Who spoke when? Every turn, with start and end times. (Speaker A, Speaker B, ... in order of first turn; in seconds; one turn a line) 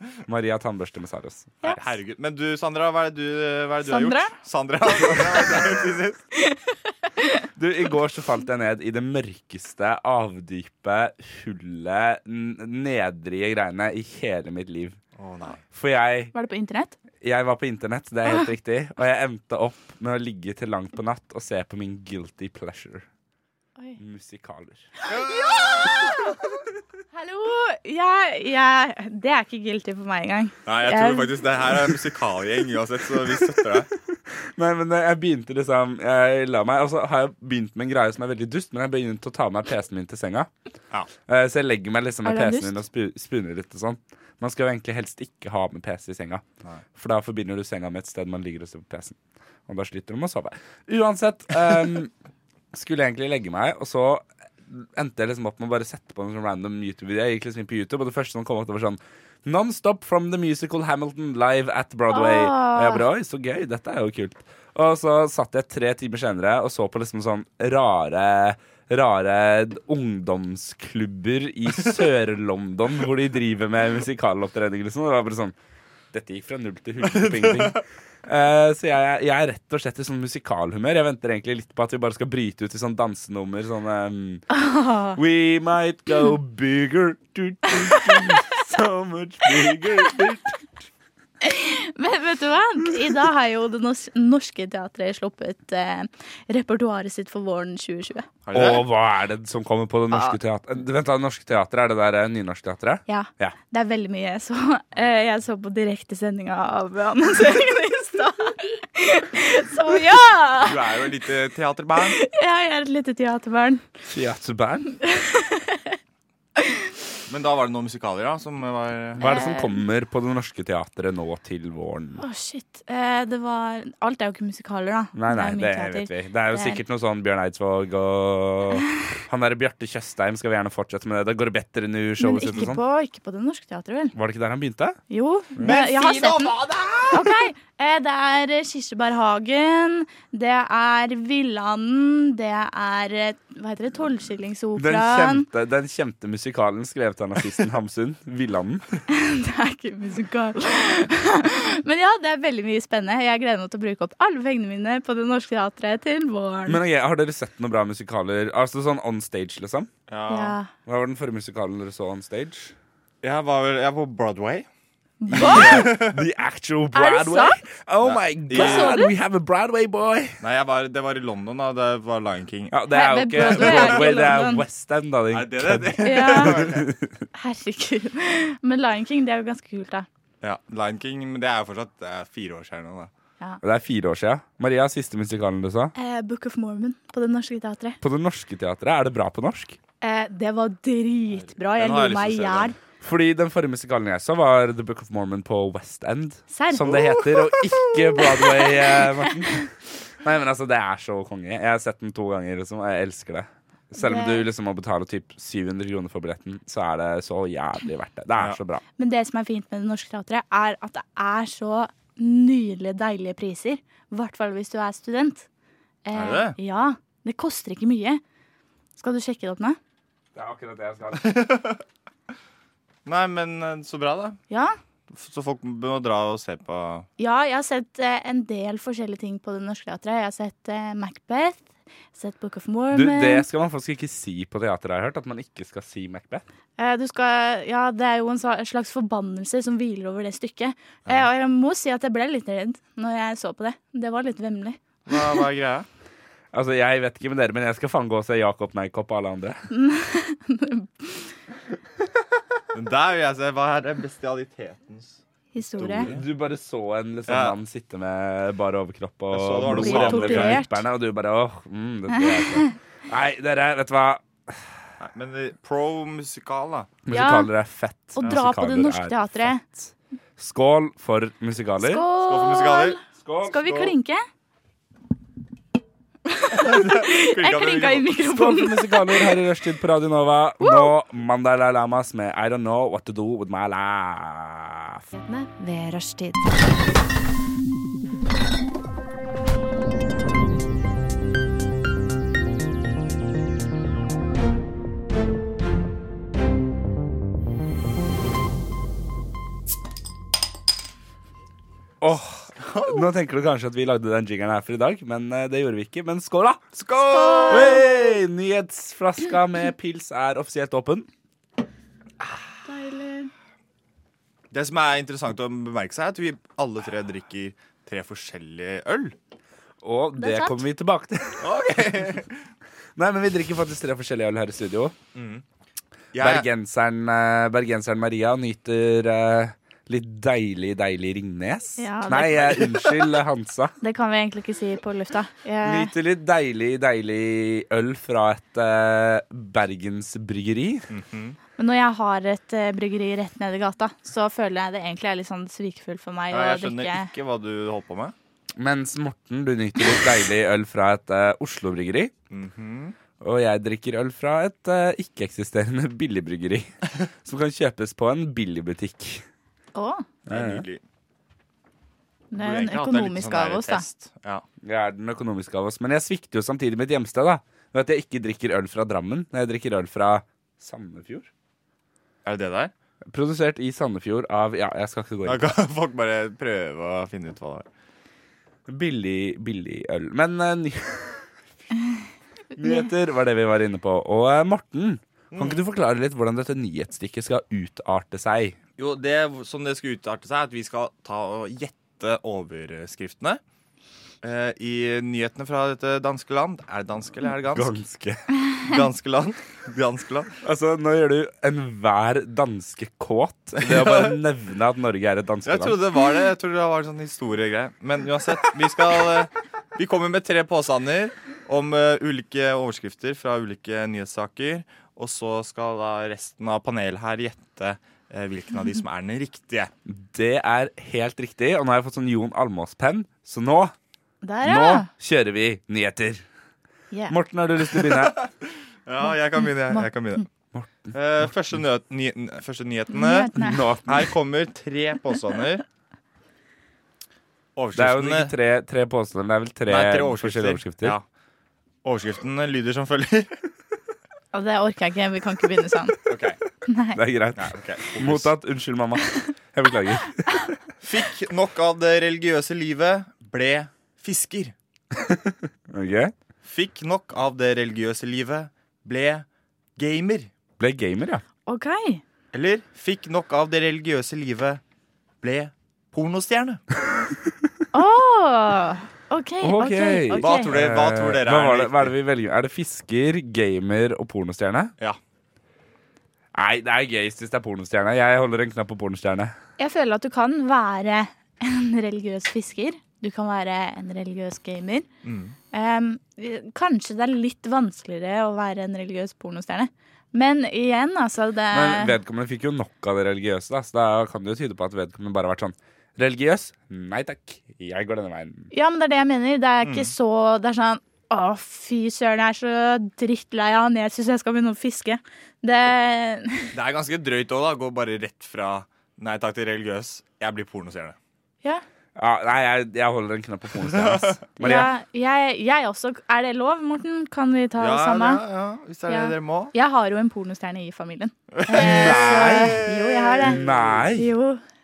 Speaker A: 0.3-1.7
Speaker B: 1.7-6.2
Speaker C: 3.9-4.3
Speaker C: 6.4-7.4
Speaker A: 7.5-15.0
Speaker B: 15.2-15.6
Speaker A: 15.7-16.3
Speaker C: 16.3-16.9
Speaker A: 17.2-23.0
Speaker A: 24.0-24.9
Speaker B: 25.1-26.3
Speaker C: 25.1-26.4
Speaker C: 27.1-31.3
Speaker B: 30.6-33.9
Speaker A: 34.1-40.5
Speaker A: 41.3-46.4
Speaker C: 42.2-42.8
Speaker A: 47.0-52.1
Speaker A: 52.7-75.5
Speaker C: 62.1-63.0
Speaker A: 76.1-84.5
Speaker B: 77.0-77.8
Speaker C: 84.5-85.2
Speaker A: 85.1-90.8
Speaker C: 87.7-88.6
Speaker C: 91.4-98.3
Speaker B: 98.4-98.8
Speaker A: 98.5-103.5
Speaker C: 100.1-100.4
Speaker C: 103.1-110.8
Speaker B: 110.6-112.2
Speaker C: 112.1-113.9
Speaker A: 114.1-114.9
Speaker C: 115.0-116.0
Speaker C: 116.6-116.9
Speaker B: 117.3-119.2
Speaker A: 119.2-122.2
Speaker C: 119.2-119.8
Speaker C: 122.2-126.8
Speaker A: 125.1-132.8
Speaker C: 132.2-134.1
Speaker A: 134.1-135.0
Speaker C: 135.1-136.6
Speaker B: 135.6-137.3
Speaker C: 137.1-145.4
Speaker A: 144.8-148.9
Speaker C: 149.1-156.8
Speaker A: 156.7-159.9
Speaker B: 160.1-160.6
Speaker C: 160.3-160.7
Speaker A: 160.8-162.7
Speaker B: 163.2-164.7
Speaker C: 165.2-166.0
Speaker A: 165.3-170.4
Speaker B: 165.3-166.2
Speaker C: 166.9-167.6
Speaker B: 168.0-169.0
Speaker C: 168.5-169.1
Speaker B: 170.4-172.8
Speaker A: 172.7-177.1
Speaker C: 172.9-174.6
Speaker B: 173.3-174.3
Speaker B: 175.3-176.9
Speaker C: 176.0-176.7
Speaker C: 177.3-180.1
Speaker B: 180.4-183.1
Speaker A: 183.6-185.9
Speaker C: 185.9-188.0
Speaker A: 188.0-189.8
Speaker C: 190.0-192.8
Speaker B: 191.3-192.8
Speaker A: 193.0-208.8
Speaker C: 196.5-196.9
Speaker B: 196.8-197.7
Speaker C: 204.0-204.5
Speaker C: 209.0-215.5
Speaker C: 216.1-218.2
Speaker B: 216.1-216.6
Speaker C: 219.0-219.8
Speaker A: 220.3-221.6
Speaker B: 221.2-221.8
Speaker B: 223.0-224.4
Speaker C: 224.5-224.7
Speaker B: 225.1-227.1
Speaker C: 227.2-233.4
Speaker A: 232.9-236.4
Speaker C: 236.8-245.4
Speaker B: 245.1-245.9
Speaker A: 246.5-249.7
Speaker C: 249.7-251.3
Speaker B: 252.7-255.2
Speaker C: 255.5-256.1
Speaker B: 255.8-256.2
Speaker A: 256.0-264.8
Speaker B: 257.3-257.6
Speaker B: 259.3-260.6
Speaker C: 259.7-260.8
Speaker C: 262.1-262.7
Speaker B: 265.0-266.9
Speaker A: 267.1-272.0
Speaker C: 267.1-267.5
Speaker C: 268.1-269.6
Speaker C: 271.8-274.2
Speaker B: 272.1-273.0
Speaker A: 273.2-273.9
Speaker C: 276.3-279.3
Speaker B: 276.5-278.1
Speaker A: 278.3-285.0
Speaker C: 280.6-280.9
Speaker C: 285.2-286.5
Speaker A: 302.0-306.8
Speaker B: 306.8-307.9
Speaker C: 307.0-307.9
Speaker A: 307.5-311.1
Speaker C: 312.6-313.3
Speaker B: 314.5-319.1
Speaker A: 319.8-321.7
Speaker C: 320.2-320.6
Speaker B: 321.4-322.4
Speaker A: 322.9-324.9
Speaker B: 325.1-325.4
Speaker B: 326.1-326.4
Speaker A: 326.2-333.7
Speaker C: 331.8-332.9
Speaker C: 333.8-335.9
Speaker A: 335.6-340.9
Speaker B: 340.9-341.4
Speaker C: 341.6-347.1
Speaker B: 346.3-348.1
Speaker A: 348.6-352.1
Speaker B: 352.3-352.9
Speaker A: 353.2-359.2
Speaker C: 359.7-360.1
Speaker A: 360.3-360.6
Speaker B: 360.3-360.8
Speaker C: 362.3-363.8
Speaker B: 362.4-364.4
Speaker A: 364.6-371.3
Speaker B: 372.2-372.7
Speaker A: 373.1-375.5
Speaker B: 375.2-377.7
Speaker A: 378.7-381.2
Speaker A: 382.5-388.6
Speaker B: 385.3-385.6
Speaker B: 388.8-393.4
Speaker B: 394.2-397.7
Speaker A: 397.5-398.2
Speaker B: 398.6-400.3
Speaker A: 400.4-405.8
Speaker B: 403.6-404.1
Speaker B: 405.4-419.7
Speaker A: 419.9-423.7
Speaker C: 424.2-424.9
Speaker A: 424.4-426.2
Speaker A: 427.1-428.2
Speaker B: 427.9-428.2
Speaker B: 428.9-430.2
Speaker A: 430.5-430.9
Speaker B: 430.9-433.3
Speaker C: 432.9-433.6
Speaker A: 433.4-434.1
Speaker B: 433.8-435.6
Speaker B: 437.6-438.3
Speaker A: 437.7-440.9
Speaker B: 439.7-441.0
Speaker B: 441.8-443.3
Speaker C: 444.3-446.0
Speaker B: 446.1-446.4
Speaker C: 446.7-447.0
Speaker A: 446.9-450.6
Speaker B: 447.4-448.3
Speaker B: 450.8-454.5
Speaker A: 454.9-456.1
Speaker B: 456.4-459.2
Speaker B: 459.8-460.3
Speaker A: 460.6-461.2
Speaker C: 461.5-462.0
Speaker B: 462.3-464.6
Speaker B: 465.2-466.6
Speaker C: 467.7-470.5
Speaker A: 469.4-474.7
Speaker B: 470.2-471.9
Speaker A: 476.3-479.3
Speaker C: 479.6-484.9
Speaker B: 485.0-485.4
Speaker C: 485.5-491.9
Speaker A: 491.5-498.5
Speaker C: 498.5-506.5
Speaker B: 499.6-499.9
Speaker B: 506.5-511.0
Speaker A: 511.9-514.7
Speaker B: 513.7-514.1
Speaker C: 514.4-518.2
Speaker B: 517.6-519.5
Speaker C: 518.9-523.4
Speaker B: 521.3-523.9
Speaker A: 521.5-522.6
Speaker A: 523.2-524.1
Speaker C: 523.9-524.4